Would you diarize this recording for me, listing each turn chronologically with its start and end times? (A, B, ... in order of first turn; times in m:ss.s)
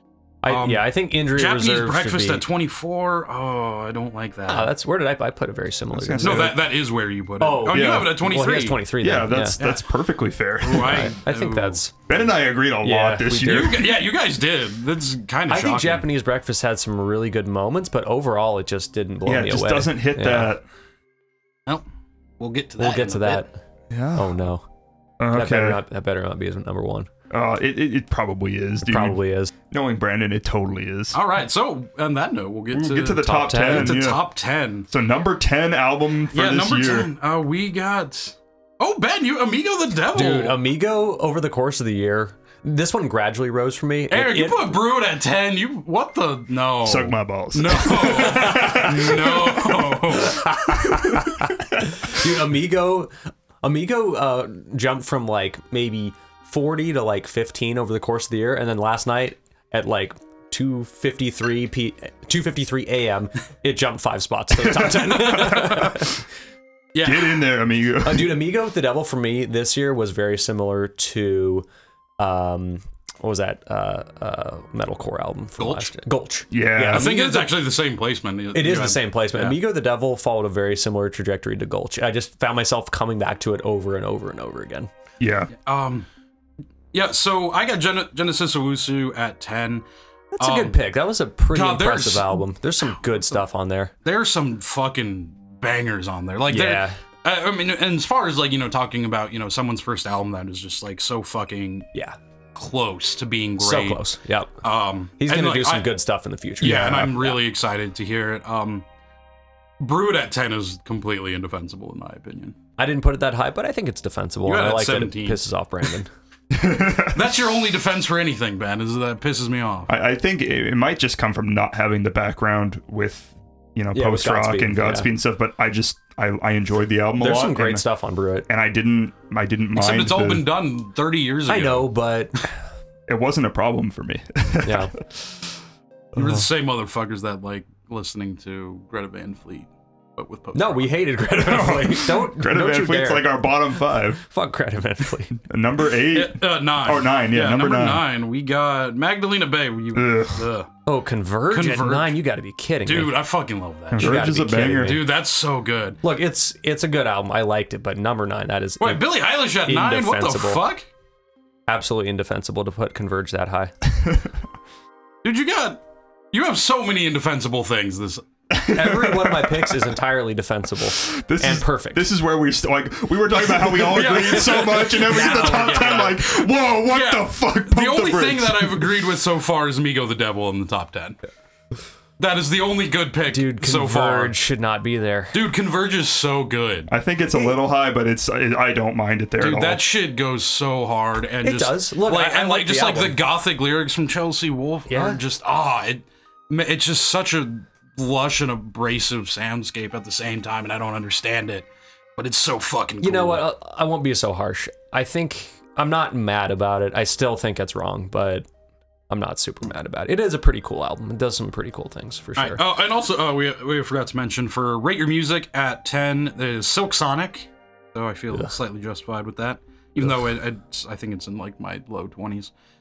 0:00.4-0:02.4 A
0:00.5-0:04.7 B
0:04.5-0:06.6 A
0:05.9-0:06.6 C
0:06.2-0:08.8 B
0:07.4-0:09.6 A
0:07.7-0:08.2 C
0:09.0-0:11.1 C
0:09.6-0:09.8 B
0:10.6-0:11.8 B
0:10.7-0:11.9 A
0:12.1-0:14.0 C
0:12.8-0:13.8 A
0:13.4-0:16.1 B
0:15.5-0:20.5 A
0:19.3-0:20.6 C
0:22.4-0:23.4 B
0:22.8-0:23.5 A
0:23.9-0:24.4 C
0:24.2-0:24.6 A
0:25.2-0:25.8 C
0:25.3-0:27.1 A
0:27.3-0:31.2 C
0:28.8-0:29.5 A
0:31.1-0:34.9 B
0:32.7-0:34.2 C
0:33.2-0:34.0 A
0:34.9-0:37.1 C
0:36.3-0:40.6 B
0:40.1-0:44.8 A
0:44.1-0:50.8 B
0:46.8-0:50.1 C
0:48.3-0:49.2 A
0:50.3-0:53.1 A
0:50.8-0:51.9 C
0:53.6-1:06.2 A
1:04.6-1:05.8 C
1:05.1-1:06.0 B
1:06.9-1:07.5 B
1:07.0-1:08.4 C
1:08.0-1:11.7 A
1:12.2-1:17.6 A
1:15.6-1:15.9 B
1:16.5-1:17.1 C
1:16.9-1:19.6 B
1:18.5-1:24.9 A
1:25.2-1:25.5 C
1:25.6-1:26.1 B
1:26.9-1:29.8 B
1:30.4-1:33.9 A
1:30.4-1:30.8 B
1:31.5-1:33.1 B
1:34.0-1:41.9 B
1:36.5-1:37.0 A
1:42.6-1:44.0 B
1:43.6-1:44.5 A
1:44.6-1:46.0 B
1:45.2-1:47.4 A
1:46.6-1:48.8 B
1:49.8-1:52.6 B
1:52.8-1:56.1 A
1:54.4-1:55.4 B
1:56.5-1:57.4 C
1:57.1-2:00.0 B
1:59.9-2:07.8 C
2:03.9-2:05.1 A
2:07.2-2:08.5 A
2:08.5-2:10.5 C
2:09.7-2:11.9 B
2:11.5-2:12.5 A
2:13.1-2:14.9 C
2:14.6-2:14.9 A
2:16.2-2:21.0 B
2:20.5-2:23.5 A
2:21.3-2:24.2 C
2:24.2-2:25.4 A
2:25.4-2:28.1 C
2:26.1-2:30.7 B
2:29.9-2:30.5 C
2:30.9-2:33.2 A
2:31.5-2:32.2 B
2:32.9-2:36.0 B
2:34.0-2:35.0 C
2:34.0-2:35.0 A
2:36.0-2:39.1 A
2:38.8-2:40.9 B
2:39.6-2:40.6 A
2:41.7-2:43.7 A
2:45.2-2:45.8 B
2:46.3-2:48.3 B
2:48.5-2:49.8 C
2:48.7-2:52.1 A
2:51.0-2:58.9 C
2:53.5-3:01.2 B
2:55.0-2:56.2 A
3:02.2-3:04.4 B
3:03.3-3:05.4 A
3:05.3-3:06.9 B
3:06.9-3:09.8 C
3:09.4-3:21.7 B
3:11.4-3:13.2 A
3:14.9-3:15.2 A
3:22.2-3:23.5 B
3:23.0-3:28.5 A
3:29.1-3:32.6 A
3:32.4-3:42.5 B